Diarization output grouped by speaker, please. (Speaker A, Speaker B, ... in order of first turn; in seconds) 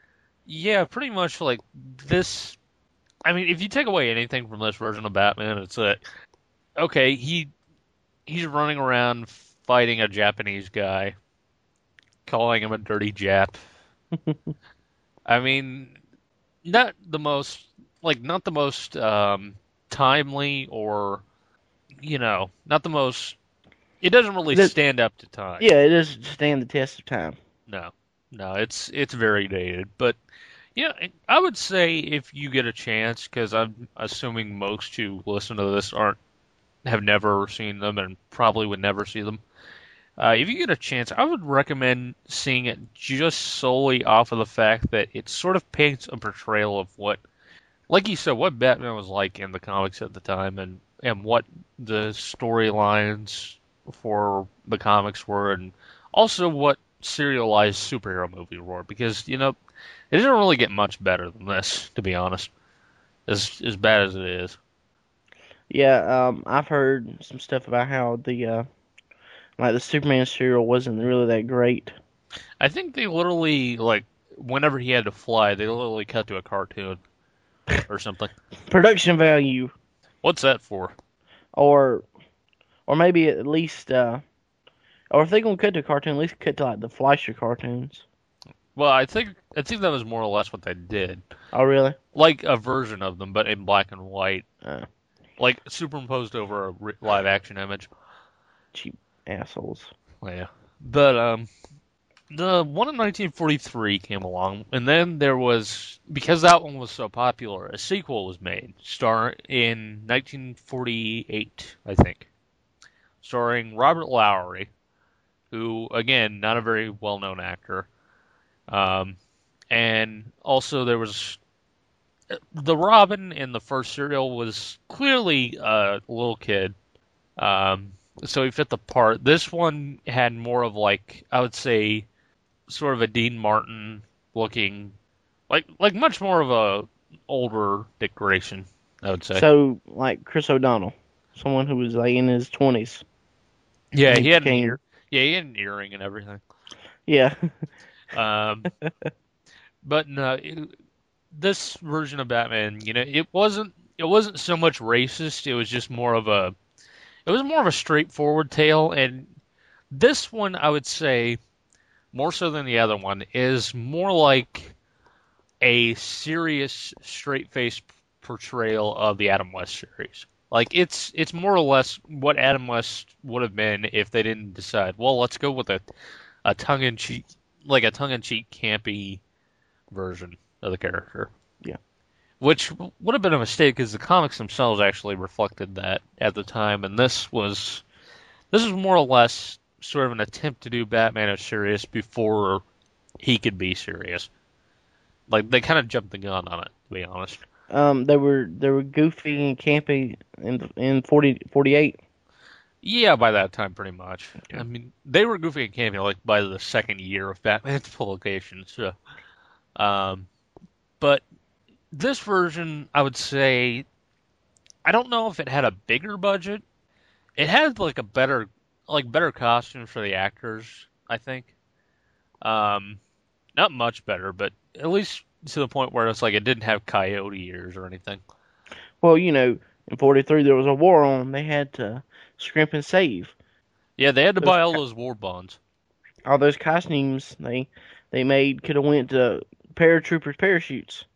Speaker A: 0.5-2.6, 3.2-6.0, 6.8-7.5, 8.3-11.1, 12.2-13.6, 15.3-16.0, 16.6-21.2, 22.0-23.4, 24.0-25.7, 27.7-30.2, 30.8-36.2, 36.8-39.4, 40.2-47.2, 47.9-59.6, 60.1-62.5, 63.3-64.6, 72.6-77.0, 77.8-78.3, 80.2-80.9, 88.7-91.2, 92.1-94.4, 95.4-97.9, 100.2-101.5, 102.3-112.3, 113.2-114.7, 115.5-117.9, 118.7-119.2, 119.7-121.4, 122.3-126.7, 127.4-132.1, 132.7-134.9, 135.5-139.4, 143.9-146.4, 148.1-148.7, 149.8-150.7, 151.3-156.5, 157.2-159.3, 159.9-161.4, 162.1-164.7, 165.6-175.8, 176.4-179.2, 179.9-181.3, 182.4-187.8, 188.5-192.6, 193.2-194.3, 195.3-197.4, 202.8-208.9, 209.8-210.3, 211.9-213.8, 214.8-216.6, 217.4-221.5, 222.4-223.0, 223.6-228.2, 234.0-235.6
Speaker B: 14.1-14.5, 25.6-27.4, 65.7-68.7, 69.6-71.9, 78.7-79.7, 81.5-82.0, 82.9-84.2, 85.1-88.0, 91.5-92.0, 98.7-99.9, 139.3-143.0, 144.1-144.8, 147.1-147.6, 148.8-149.1, 197.7-202.0, 229.0-233.3, 234.4-234.8, 236.2-241.1